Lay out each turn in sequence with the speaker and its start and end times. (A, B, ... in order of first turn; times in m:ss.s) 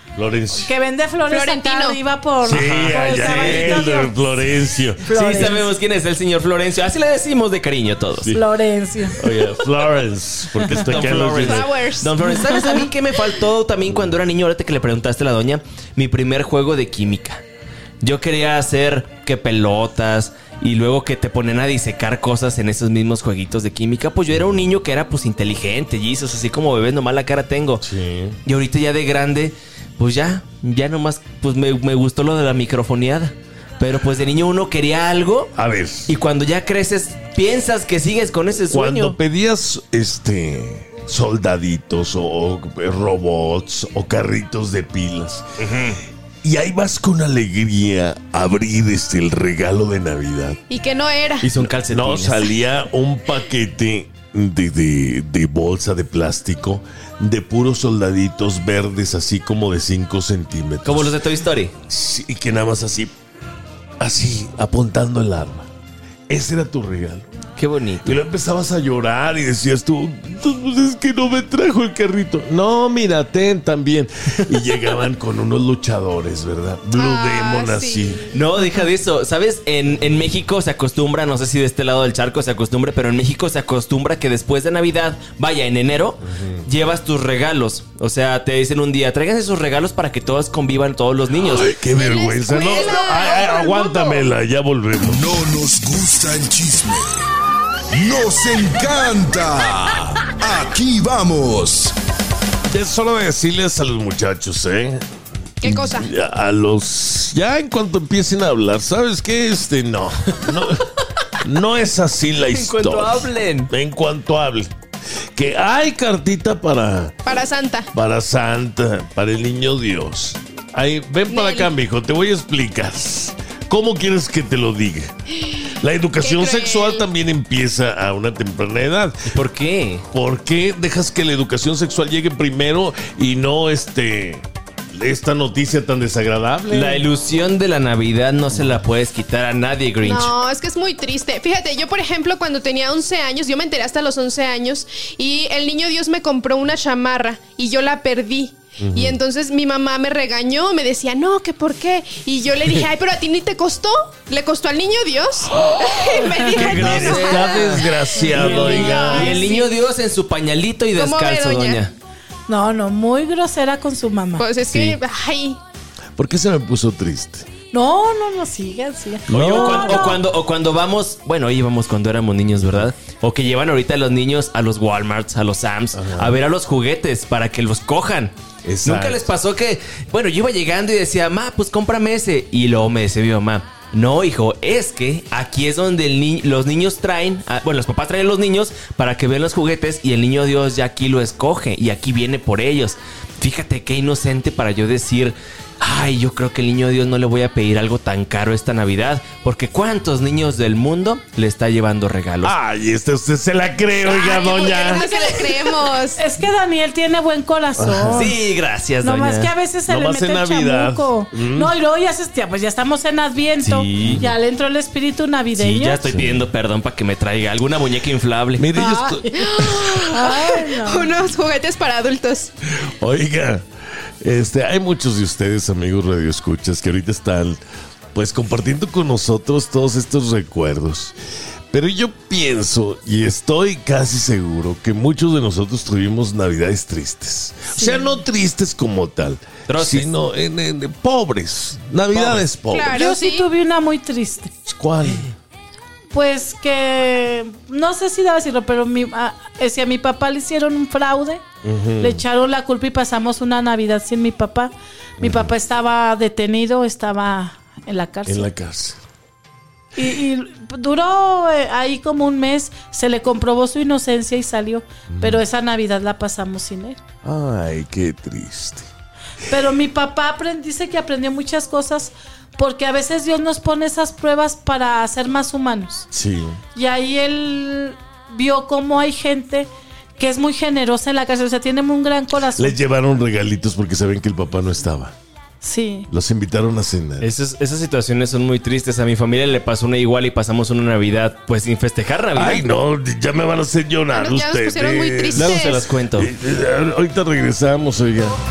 0:00.2-0:00.7 A
0:00.6-0:04.3 B
0:01.3-0:02.0 C
0:02.4-0:05.4 A
0:02.4-0:03.9 D
0:05.0-0:05.7 B
0:05.1-0:08.3 D
0:08.3-0:09.6 B
0:09.2-0:11.8 A
0:10.6-0:10.9 B
0:10.8-0:17.4 D
0:11.1-0:12.2 C
0:12.4-0:12.8 B
0:18.0-0:27.8 D
0:27.8-0:28.4 A
0:28.4-0:35.6 D
0:35.6-0:36.1 A
0:36.1-0:39.2 D
0:38.7-0:45.6 A
0:45.6-0:46.0 D
0:46.4-0:50.6 A
0:50.7-0:51.5 C
0:51.4-0:52.5 D
0:51.8-1:01.2 A
1:00.8-1:01.7 D
1:01.9-1:03.1 A
1:04.0-1:05.7 A
1:06.3-1:07.3 A
1:07.6-1:08.2 D
1:08.0-1:18.2 A
1:16.9-1:18.4 C
1:18.3-1:31.8 D
1:26.2-1:26.7 A
1:31.4-1:35.4 A
1:31.9-1:34.3 C
1:32.5-1:33.2 D
1:35.0-1:37.1 E
1:37.9-1:41.9 E
1:42.7-1:45.0 A
1:45.6-1:46.1 C
1:45.6-1:50.9 A
1:51.4-1:54.7 A
1:52.5-1:53.7 D
1:55.4-1:57.2 A
1:57.3-1:57.9 C
1:57.9-2:09.4 A
2:01.3-2:01.7 C
2:05.5-2:07.1 C
2:09.3-2:10.0 D
2:10.1-2:17.1 A
2:16.7-2:20.4 D
2:18.5-2:18.8 A
2:20.0-2:37.8 C
2:28.8-2:29.2 A
2:36.3-2:36.6 B
2:36.5-2:39.3 A
2:36.5-2:41.9 D
2:38.1-2:39.5 B
2:38.5-2:39.7 C
2:40.9-2:41.8 C
2:42.5-2:44.5 B
2:44.4-2:45.6 C
2:44.7-2:45.0 D
2:46.2-2:47.5 A
2:47.7-2:50.2 B
2:49.3-2:50.2 A
2:49.3-2:58.3 D
2:52.6-2:52.9 A
2:55.9-2:56.4 A
2:58.6-2:59.3 A
2:58.8-3:22.5 D
3:22.4-3:25.1 A
3:24.0-3:25.6 D
3:24.1-3:26.2 C
3:26.2-3:28.4 B
3:27.8-3:28.3 A
3:28.1-3:29.5 D
3:29.0-3:36.1 B
3:29.9-3:31.7 A
3:33.6-3:34.3 D
3:34.0-3:34.3 A
3:35.6-3:38.7 D
3:36.1-3:36.5 A
3:38.6-3:39.9 A
3:38.8-3:41.1 B
3:39.4-3:42.5 C
3:42.8-3:43.6 A
3:44.2-3:47.6 A
3:48.1-3:51.2 A
3:51.7-4:03.0 A
3:59.7-4:00.1 D
4:02.1-4:02.6 D
4:02.7-4:04.5 B
4:02.7-4:03.5 C
4:04.7-4:05.3 A
4:06.1-4:11.4 B
4:11.6-4:12.2 A
4:12.0-4:18.5 B
4:15.2-4:15.5 A
4:18.3-4:19.0 A
4:20.0-4:27.0 B
4:25.1-4:25.4 A
4:27.2-4:28.9 A
4:29.5-4:36.1 B
4:36.1-4:36.6 A
4:36.8-4:42.8 B
4:42.6-4:45.1 A
4:45.6-4:46.1 B
4:46.1-4:47.3 A
4:47.2-4:52.6 D
4:52.3-4:58.4 A
4:54.1-4:55.8 C
4:55.3-4:56.3 D